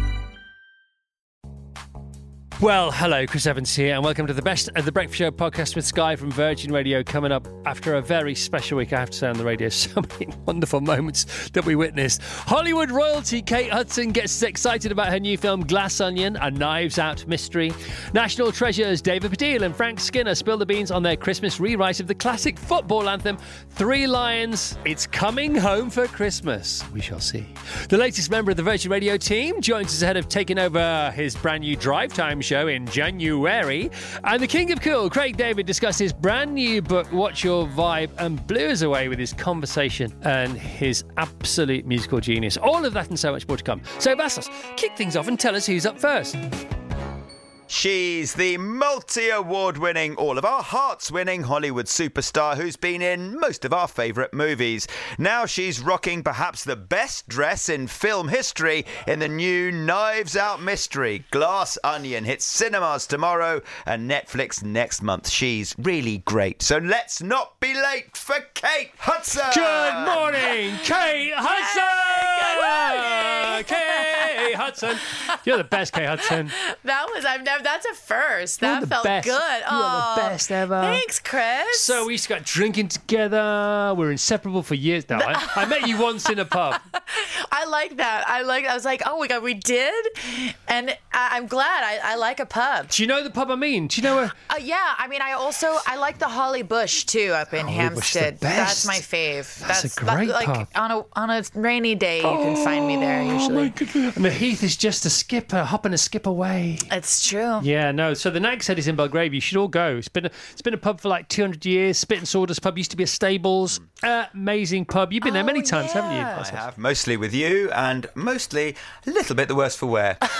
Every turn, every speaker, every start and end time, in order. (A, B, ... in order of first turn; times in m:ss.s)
0:02.6-0:46.4 A
0:47.7-1:10.5 B
1:09.5-1:16.5 A
1:11.4-1:14.5 C
1:16.3-1:22.0 C
1:18.6-1:21.0 A
1:21.7-1:26.8 A
1:25.1-1:25.9 C
1:26.9-1:33.0 C
1:32.9-1:34.4 A
1:34.5-1:43.8 C
1:37.5-1:39.0 A
1:39.6-1:40.7 A
1:42.2-1:46.9 A
1:46.9-1:47.6 C
1:47.6-1:56.4 A
1:55.2-1:56.5 C
1:56.3-2:00.2 B